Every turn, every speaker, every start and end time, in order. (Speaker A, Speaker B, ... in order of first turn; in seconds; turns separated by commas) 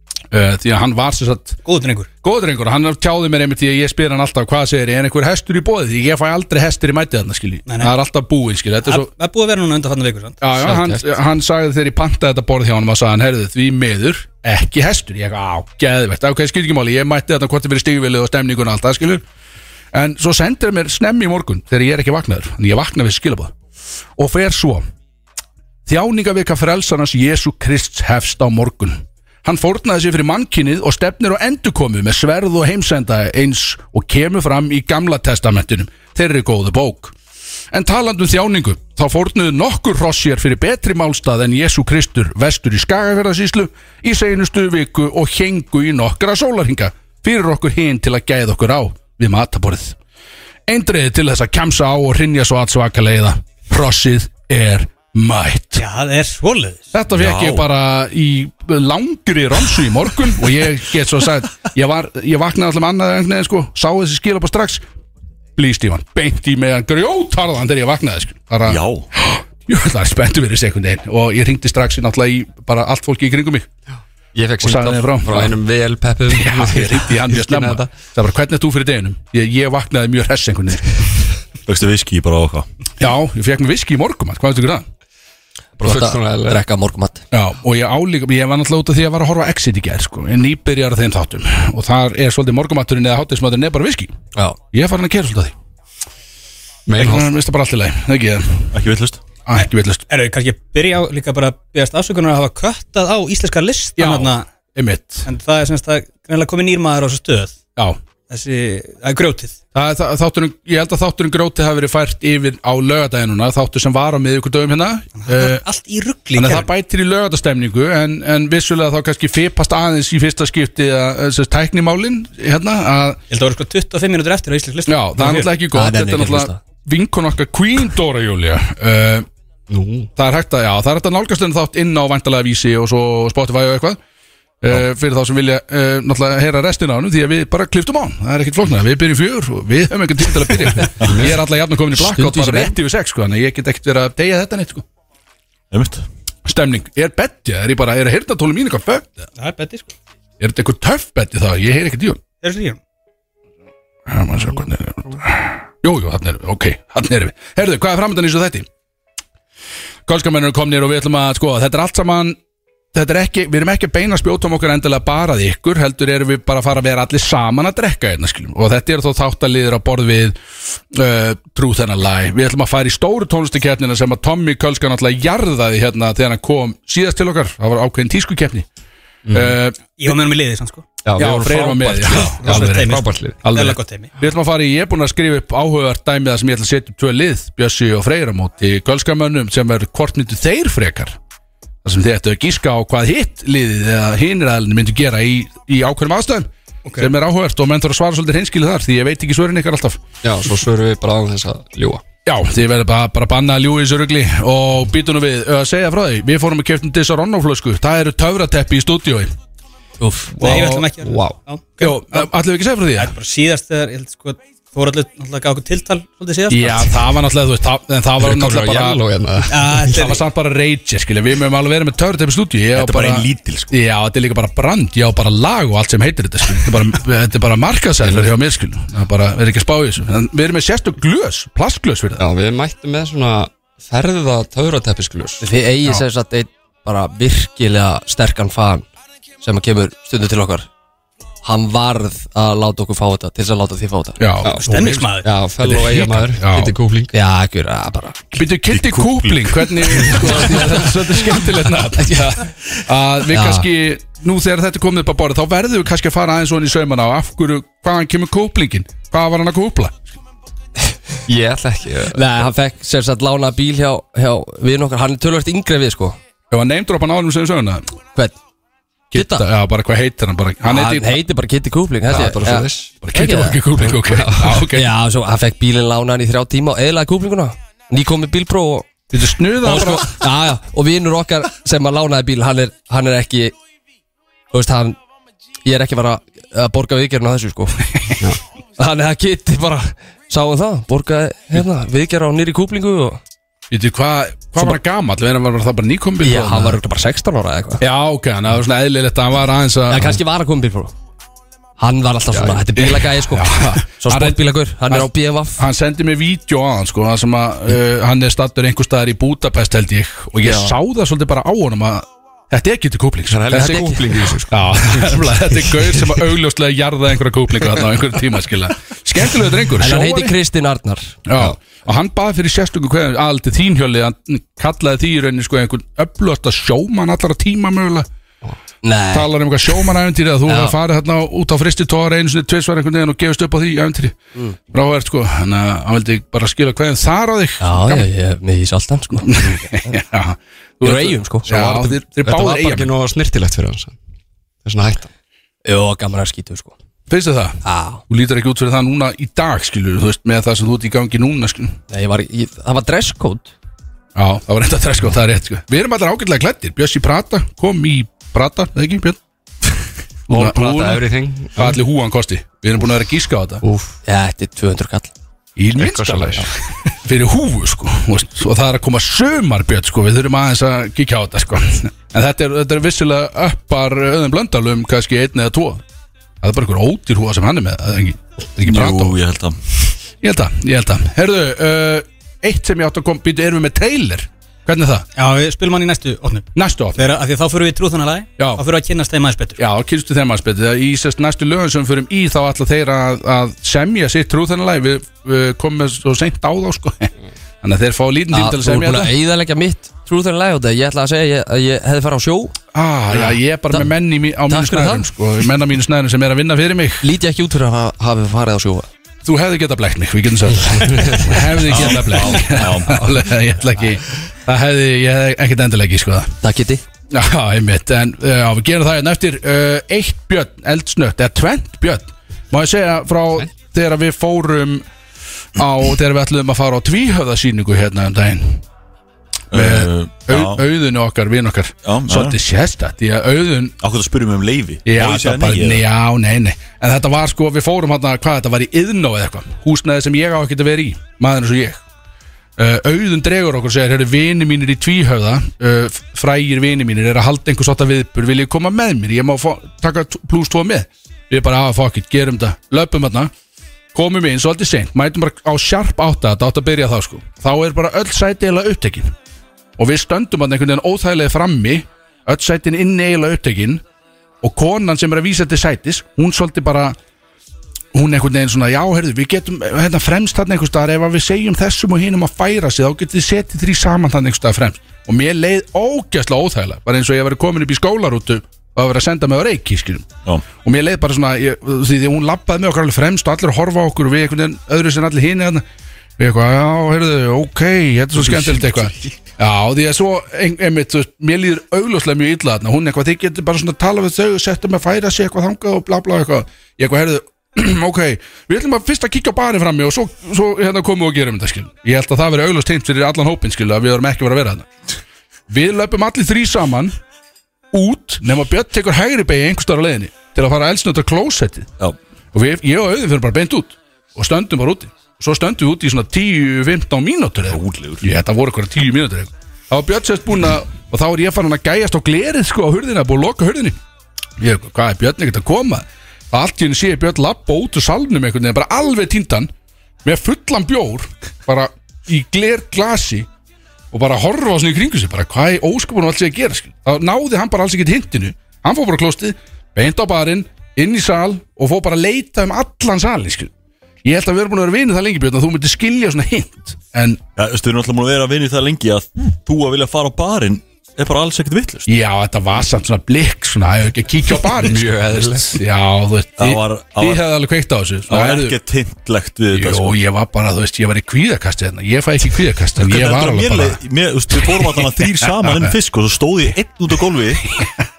Speaker A: 0.3-1.6, Speaker B: 1.6-2.1, Speaker A: 2.2-9.1, Speaker B: 7.7-7.9, Speaker B: 8.9-10.4, Speaker A: 10.4-19.2, Speaker A: 19.9-23.5, Speaker A: 24.2-24.9, Speaker A: 25.9-37.1, Speaker A: 37.7-50.0, Speaker A: 50.7-55.8, Speaker B: 55.8-56.9, Speaker A: 56.9-64.8, Speaker C: 57.1-57.7, Speaker A: 65.6-73.7, Speaker C: 68.7-69.1, Speaker D: 73.9-77.9, Speaker A: 74.6-75.6, Speaker A: 76.3-81.0, Speaker C: 81.7-82.7, Speaker A: 83.0-84.8, Speaker E: 85.8-87.2, Speaker D: 85.8-86.6, Speaker A: 87.3-94.1, Speaker A: 94.7-95.5, Speaker D: 96.9-97.3, Speaker A: 97.0-98.7, Speaker C: 98.7-99.2, Speaker A: 99.5-100.0, Speaker B: 100.1-104.5, Speaker A: 104.0-105.3, Speaker B: 105.2-107.6, Speaker B: 108.3-109.6, Speaker A: 109.8-115.6, Speaker B: 115.2-116.7, Speaker A: 116.4-123.2, Speaker B: 123.3-125.5, Speaker A: 124.9-129.3, Speaker E: 125.7-126.6, Speaker D: 129.7-130.1, Speaker A: 130.2-134.0, Speaker A: 134.6-144.8, Speaker D: 141.1-141.3, Speaker E: 141.9-142.8, Speaker C: 145.7-146.0, Speaker A: 146.5-149.3, Speaker B: 149.4-149.9, Speaker A: 150.4-152.2, Speaker B: 152.4-152.8, Speaker A: 154.1-158.7, Speaker A: 160.1-162.4, Speaker A: 162.9-170.4, Speaker A: 170.9-178.7, Speaker D: 179.3-179.6, Speaker A: 179.3-180.2, Speaker B: 180.0-180.8, Speaker D: 181.0-183.4, Speaker A: 181.2-191.2, Speaker B: 182.4-184.1, Speaker A: 191.8-200.0, Speaker B: 196.9-197.1, Speaker D: 200.2-202.0, Speaker A: 202.2-209.3, Speaker E: 210.0-210.4, Speaker D: 210.3-211.4, Speaker B: 210.4-212.3, Speaker A: 210.4-210.9, Speaker A: 211.8-213.1, Speaker B: 213.0-217.1, Speaker A: 216.5-219.0, Speaker D: 218.2-220.0, Speaker B: 219.5-220.2, Speaker A: 219.9-232.2, Speaker C: 222.8-223.8, Speaker D: 228.0-228.3, Speaker D: 232.2-235.4, Speaker E: 235.4-238.9, Speaker E: 239.4-240.7, Speaker E: 241.4-244.2, Speaker A: 244.2-245.1, Speaker D: 244.4-247.1, Speaker B: 244.6-245.3, Speaker A: 245.6-246.8, Speaker E: 247.1-248.2, Speaker A: 248.4-260.1, Speaker C: 248.7-250.3, Speaker E: 252.0-252.3, Speaker E: 253.3-253.7, Speaker D: 261.3-262.3, Speaker E: 262.1-266.2, Speaker A: 266.5-267.9, Speaker A: 269.1-271.2, Speaker E: 269.1-269.5, Speaker E: 270.6-273.6, Speaker D: 272.1-272.9, Speaker A: 273.0-274.9, Speaker D: 273.9-274.7, Speaker E: 274.7-278.9, Speaker A: 279.1-280.2, Speaker E: 279.6-283.5, Speaker E: 284.5-285.0, Speaker E: 285.6-288.1, Speaker E: 288.8-293.2, Speaker A: 293.7-296.8, Speaker E: 296.2-297.8, Speaker A: 297.8-300.2, Speaker E: 299.9-300.9, Speaker E: 301.8-305.6, Speaker D: 302.4-302.6, Speaker A: 302.8-313.9, Speaker E: 310.4-310.7, Speaker D: 313.3-315.2, Speaker E: 313.5-314.0, Speaker A: 314.5-320.4, Speaker E: 319.8-321.2, Speaker A: 321.3-328.1, Speaker E: 328.8-329.3, Speaker A: 329.1-334.2, Speaker E: 330.5-330.8, Speaker A: 334.7-338.1, Speaker E: 337.6-340.0, Speaker A: 339.2-342.9, Speaker E: 340.8-342.0, Speaker D: 342.2-344.0, Speaker D: 344.6-345.1, Speaker E: 345.6-346.7, Speaker A: 347.1-351.8, Speaker E: 347.6-348.0, Speaker E: 351.9-353.5, Speaker A: 354.2-359.2, Speaker D: 360.3-361.8, Speaker A: 360.3-361.0, Speaker A: 361.6-363.6, Speaker D: 363.6-364.0, Speaker E: 364.1-365.1, Speaker A: 365.6-366.5, Speaker D: 365.8-366.5, Speaker A: 367.0-375.8, Speaker A: 376.4-379.2, Speaker C: 378.6-379.6, Speaker A: 380.2-385.1, Speaker B: 385.2-389.6, Speaker A: 386.6-387.0, Speaker A: 389.6-397.1, Speaker A: 397.6-399.1, Speaker E: 398.3-402.6, Speaker A: 402.7-407.0, Speaker E: 403.1-403.9, Speaker E: 404.5-405.1, Speaker E: 407.0-408.9, Speaker A: 409.2-416.4, Speaker C: 411.7-413.1, Speaker E: 412.2-412.6, Speaker E: 416.4-416.8, Speaker A: 417.1-424.8, Speaker A: 425.6-428.6, Speaker C: 429.5-430.6, Speaker A: 429.5-433.8, Speaker C: 431.9-432.4, Speaker C: 433.8-435.9, Speaker A: 434.9-441.8, Speaker A: 442.6-453.3, Speaker A: 453.9-459.1, Speaker A: 459.8-463.8, Speaker A: 464.4-467.0, Speaker A: 467.9-485.6, Speaker A: 486.2-504.7, Speaker A: 505.5-506.9, Speaker A: 507.7-511.7, Speaker A: 512.3-523.8, Speaker C: 517.5-518.1, Speaker A: 524.4-529.5, Speaker A: 530.0-533.3, Speaker A: 533.9-543.5, Speaker A: 544.0-547.2, Speaker C: 547.4-551.9, Speaker A: 551.9-558.6, Speaker D: 554.5-555.6, Speaker C: 556.4-557.3, Speaker C: 558.1-560.0, Speaker A: 559.5-563.8, Speaker C: 562.8-567.6, Speaker A: 564.3-565.8